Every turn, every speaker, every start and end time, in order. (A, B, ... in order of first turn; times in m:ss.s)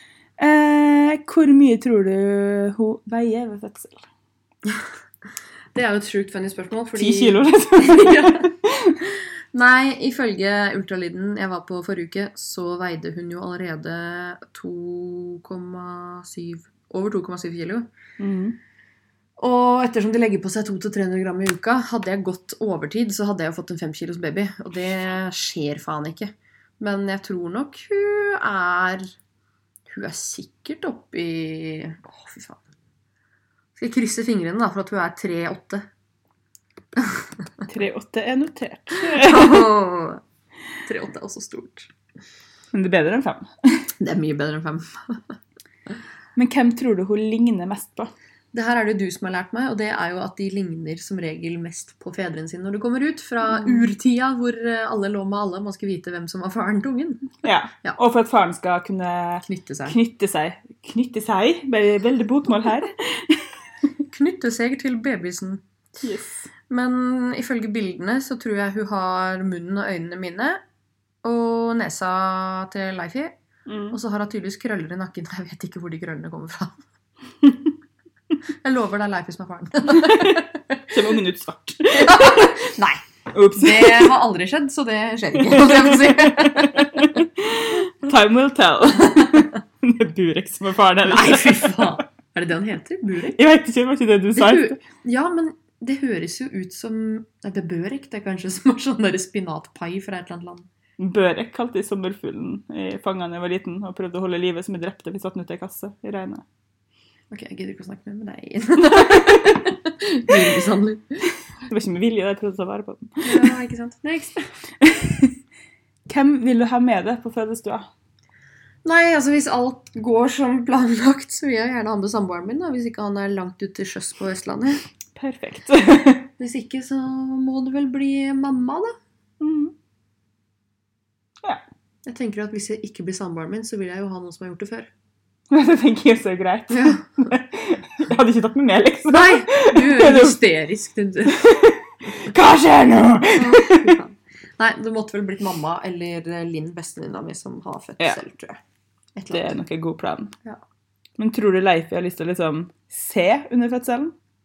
0:00.4-0:04.1 A
0:05.7-0:08.5 B
0:07.0-0:09.0 A
0:09.5-0:17.9 B
0:18.2-0:18.6 A
0:19.4-0:29.1 B
0:29.9-0:32.6 B
0:33.8-0:35.8 B
0:37.0-0:37.3 B
0:37.7-0:39.7 A
0:38.9-0:40.2 B
0:40.8-0:41.9 B
0:42.7-0:43.9 A
0:44.0-0:45.4 B
0:46.4-0:48.1 A
0:48.5-0:58.0 B
0:53.4-0:53.9 A
0:57.4-1:03.5 A
0:59.4-1:00.0 B
1:04.1-1:05.6 B
1:06.0-1:06.5 A
1:06.7-1:10.6 B
1:11.2-1:13.4 B
1:13.7-1:14.0 A
1:13.9-1:16.8 B
1:18.6-1:20.9 B
1:19.9-1:22.7 A
1:21.9-1:23.0 B
1:23.3-1:24.2 A
1:23.5-1:27.2 B
1:25.4-1:32.0 A
1:29.2-1:29.5 B
1:31.1-1:33.4 B
1:33.3-1:34.8 A
1:34.4-1:40.7 B
1:41.0-1:46.4 A
1:47.3-1:51.2 B
1:49.0-1:49.4 A
1:50.3-1:50.6 A
1:51.7-1:53.5 A
1:53.2-1:54.5 B
1:54.8-1:55.4 A
1:56.1-1:57.9 A
1:58.8-2:04.8 B
2:05.2-2:06.3 A
2:06.4-2:09.0 B
2:09.4-2:09.7 A
2:12.1-2:14.9 B
2:15.5-2:20.4 A
2:16.7-2:17.1 B
2:19.1-2:21.5 B
2:21.3-2:24.0 A
2:23.3-2:28.6 B
2:29.2-2:29.6 B
2:29.3-2:30.3 A
2:31.2-2:34.2 A